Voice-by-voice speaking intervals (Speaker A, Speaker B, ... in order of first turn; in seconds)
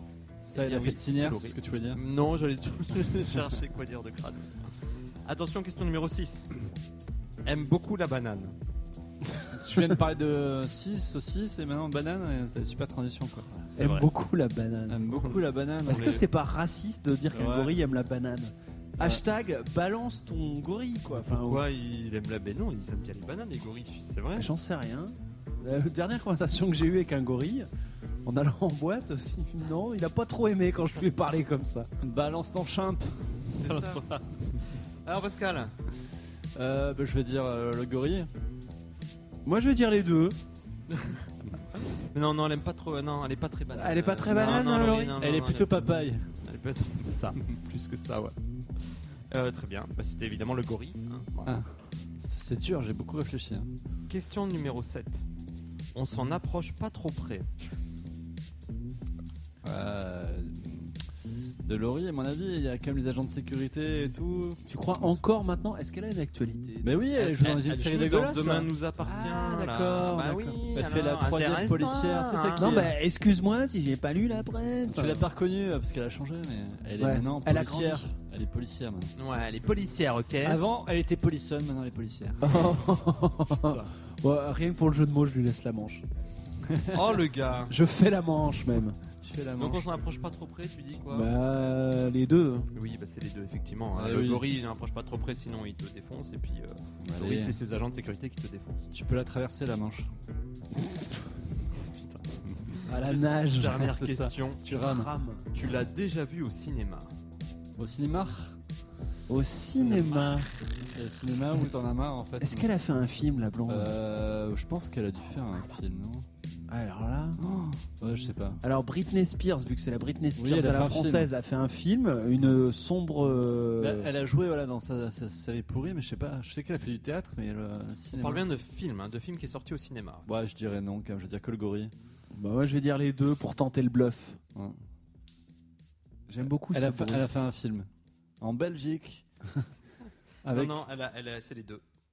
Speaker A: 0.4-2.0, 9.5-13.7, 14.9-16.2, 17.3-17.8, 32.0-33.5, 36.5-38.3, 44.3-46.3, 52.2-53.7, 59.6-60.9, 61.6-64.6, 66.8-68.7, 70.7-72.9, 74.9-79.1, 80.4-82.5, 86.7-87.2, 89.2-89.8, 93.9-94.4, 97.0-97.5, 98.9-100.1, 103.7-105.1, 107.8-108.6, 110.9-112.7, 113.7-116.2, 117.4-118.6, 120.4-121.3, 123.8-128.4, 130.2-131.9, 136.5-137.9, 138.4-139.3, 140.4-140.7
Speaker B: 0.5-4.7, 5.2-6.5, 7.4-8.6, 13.7-14.1, 15.1-15.4, 15.9-16.2, 21.1-24.5, 33.5-34.3, 35.0-35.7, 40.9-41.2, 42.1-51.5, 54.1-55.2, 55.9-57.5, 67.2-72.8, 79.2-80.6, 83.5-83.9, 86.9-87.7, 89.6-91.3, 92.7-98.9, 101.8-104.8, 105.5-107.1, 109.8-110.4, 128.2-130.3, 140.5-141.8
Speaker C: 13.8-15.0, 15.8-21.6, 24.4-27.7, 28.2-31.9, 33.7-34.0, 39.4-40.4, 43.7-45.1, 64.7-66.9, 69.0-70.6, 72.6-75.3, 77.0-78.1, 82.4-86.0, 87.7-89.0, 91.0-92.7, 102.9-103.8, 104.7-105.5, 109.3-110.5, 112.4-113.9, 116.7-117.4, 118.6-124.1, 132.3-134.4, 136.3-137.3